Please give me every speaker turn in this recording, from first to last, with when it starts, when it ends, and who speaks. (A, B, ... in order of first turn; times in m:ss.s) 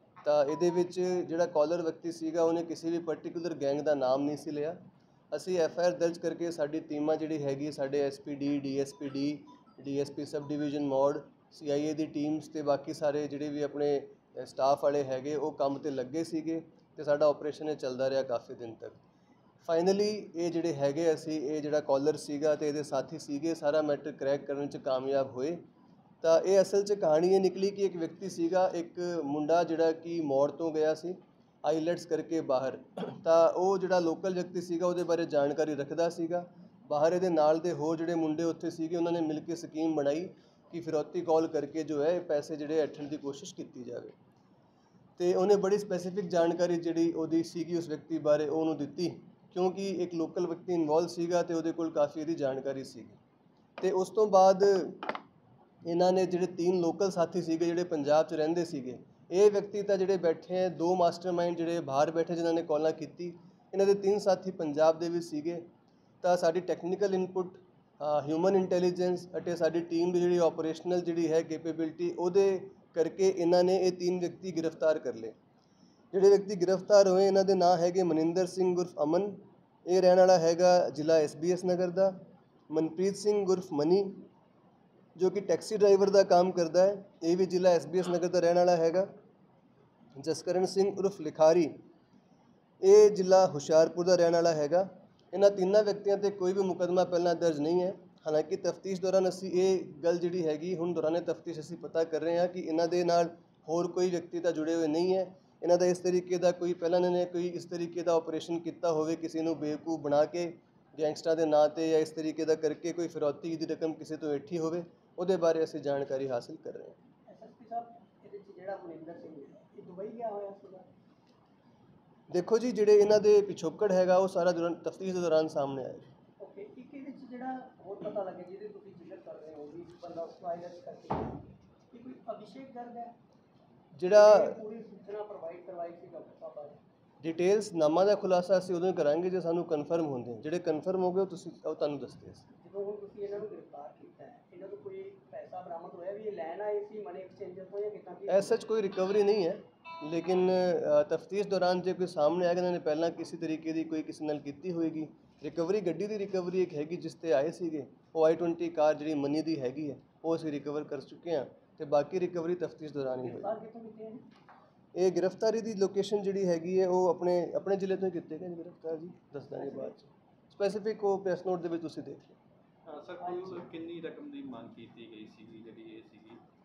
0:00.2-0:04.8 A
0:05.3-0:19.0 A
0:19.6-0:25.6 A
0:26.2-0:44.1 A
0:45.2-0:53.2 A
0:53.8-0:55.2 A
0:55.8-1:05.6 A
1:06.2-1:15.3 A
1:16.1-1:22.2 A
1:22.7-1:24.2 A
1:25.2-1:29.1 A
1:30.2-1:31.7 A
1:32.8-1:57.0 A
1:57.3-2:00.9 B
2:02.3-2:06.1 A
2:06.4-2:13.1 B
2:13.9-2:14.6 A
2:14.0-2:16.8 B
2:17.2-2:22.5 A
2:22.6-2:28.5 B
2:28.3-2:43.5 A
2:43.2-2:44.3 B
2:44.9-2:52.4 A
2:49.5-2:50.0 B
2:52.8-2:56.4 C
2:53.2-2:53.6 B